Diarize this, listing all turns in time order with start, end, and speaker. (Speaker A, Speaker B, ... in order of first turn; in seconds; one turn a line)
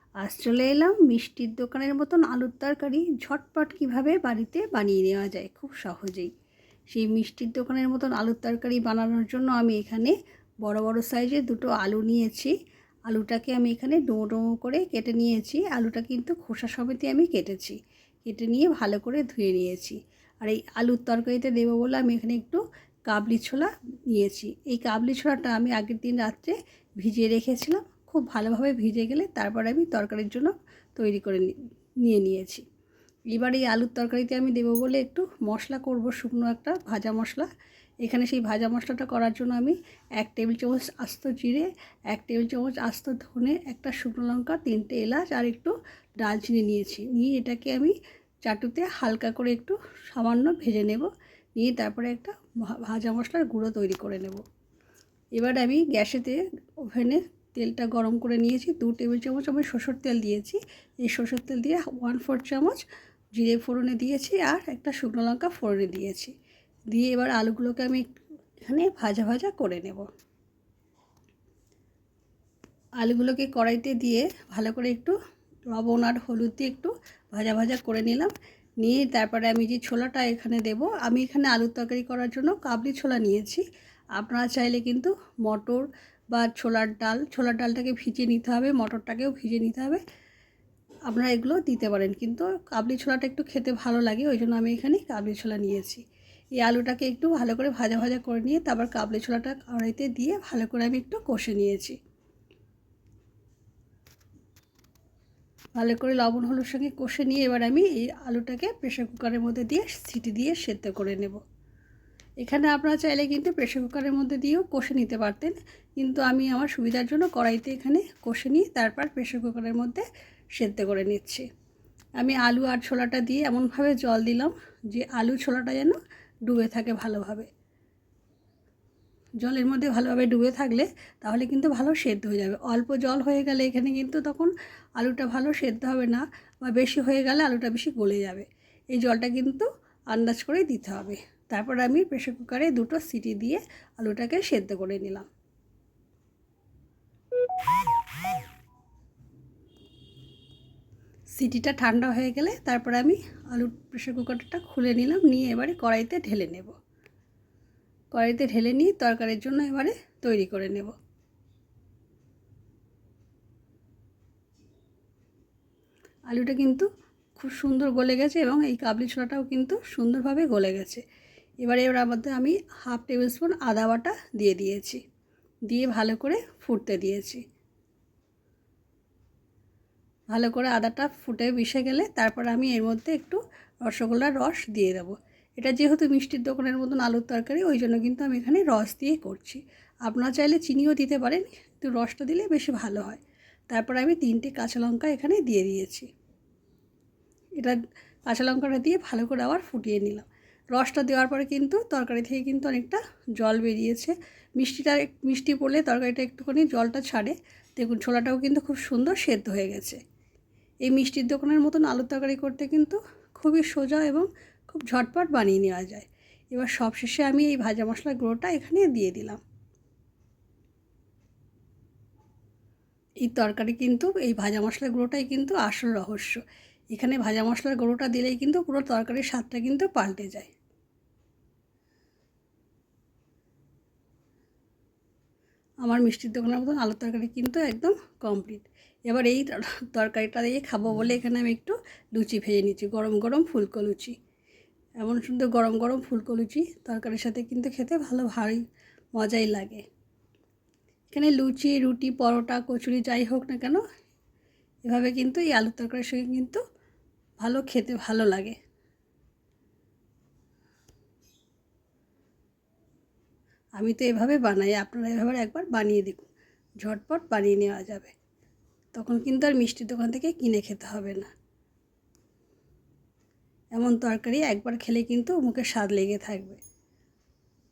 Speaker A: 0.2-6.3
Speaker A: 6.9-12.5
Speaker A: 13.1-31.5
Speaker A: 32.0-32.6
Speaker A: 33.3-37.5
Speaker A: 38.0-47.9
Speaker A: 48.4-54.4
Speaker A: 55.4-62.8
Speaker A: 63.4-66.3
Speaker A: 66.9-68.0
Speaker A: 68.6-70.0
Speaker A: 73.0-75.1
Speaker A: 75.7-83.6
Speaker A: 84.2-90.0
Speaker A: 91.1-96.0
Speaker A: 96.6-102.0
Speaker A: 105.8-111.4
Speaker A: 112.4-120.0
Speaker A: 120.6-121.5
Speaker A: 122.2-127.5
Speaker A: 129.4-145.3
Speaker A: 151.3-156.7
Speaker A: 158.1-160.9
Speaker A: 166.3-171.0
Speaker A: 171.6-175.0
Speaker A: 175.7-177.4
Speaker A: 180.3-196.1
Speaker A: 197.6-210.0
Speaker A: 210.8-219.4
Speaker A: 223.2-226.4
Speaker A: 226.9-230.5
Speaker A: 235.8-244.1
Speaker A: 245.0-248.6
Speaker A: 249.1-249.8
Speaker A: 251.1-253.8
Speaker A: 254.8-256.6
Speaker A: 257.4-258.5
Speaker A: 263.8-266.3
Speaker A: 266.8-268.1
Speaker A: 268.9-271.3
Speaker A: 273.8-276.6